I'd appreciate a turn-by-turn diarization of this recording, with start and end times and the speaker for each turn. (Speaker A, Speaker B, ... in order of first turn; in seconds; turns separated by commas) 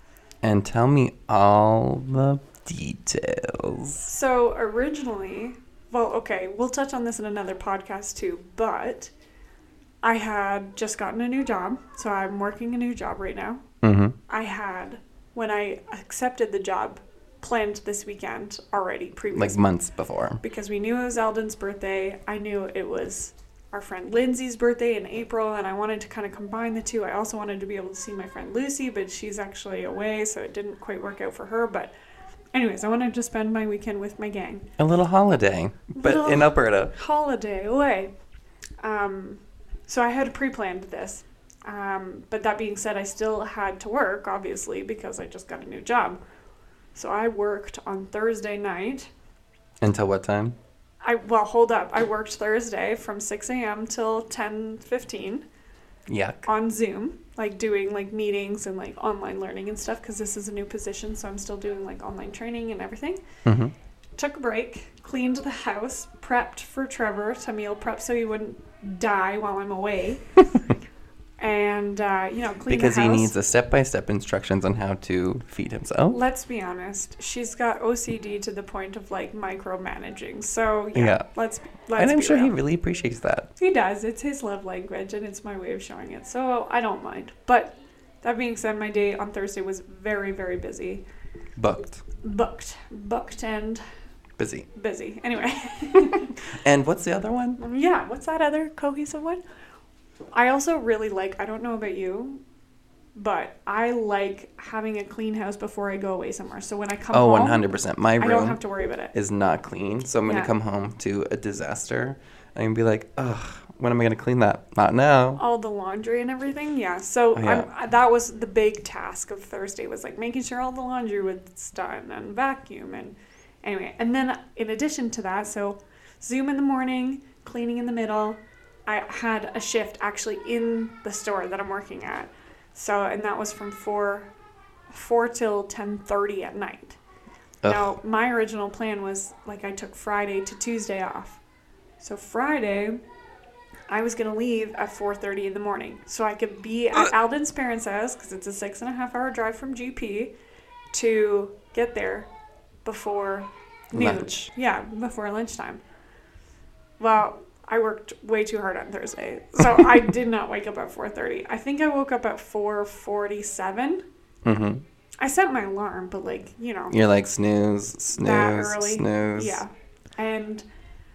Speaker A: 0.4-4.1, Speaker B: 4.0-9.1, Speaker B: 10.0-13.6, Speaker A: 13.8-14.2, Speaker B: 14.3-19.6, Speaker A: 19.3-20.4, Speaker B: 20.4-31.9, Speaker B: 32.5-34.7, Speaker A: 34.8-36.9, Speaker B: 35.9-38.1, Speaker B: 38.8-46.2, Speaker B: 46.9-49.1, Speaker A: 49.8-50.5, Speaker B: 51.0-55.4, Speaker A: 56.1-56.5, Speaker B: 56.5-63.2, Speaker A: 63.4-63.7, Speaker B: 64.2-70.7, Speaker B: 71.4-73.3, Speaker A: 72.7-76.2, Speaker B: 76.1-82.5, Speaker A: 80.9-81.3, Speaker A: 82.0-83.5, Speaker B: 83.6-91.0, Speaker A: 91.6-92.0, Speaker B: 92.2-93.8, Speaker A: 94.4-94.7, Speaker B: 94.7-96.4, Speaker A: 96.5-97.6, Speaker B: 97.6-99.4, Speaker B: 100.3-102.4, Speaker B: 103.1-107.7, Speaker A: 107.1-108.6, Speaker B: 108.2-109.1, Speaker A: 109.1-115.4, Speaker B: 110.2-110.5, Speaker B: 115.4-134.3, Speaker A: 117.3-117.7, Speaker B: 134.9-137.0, Speaker A: 137.6-137.9, Speaker B: 137.7-141.4, Speaker B: 142.0-143.0, Speaker B: 143.9-150.3, Speaker B: 150.9-152.3, Speaker B: 152.8-155.8, Speaker A: 153.9-154.5, Speaker B: 157.0-164.0, Speaker A: 159.7-160.0, Speaker A: 164.4-164.8, Speaker B: 165.2-166.9, Speaker A: 166.9-169.6, Speaker B: 168.1-170.6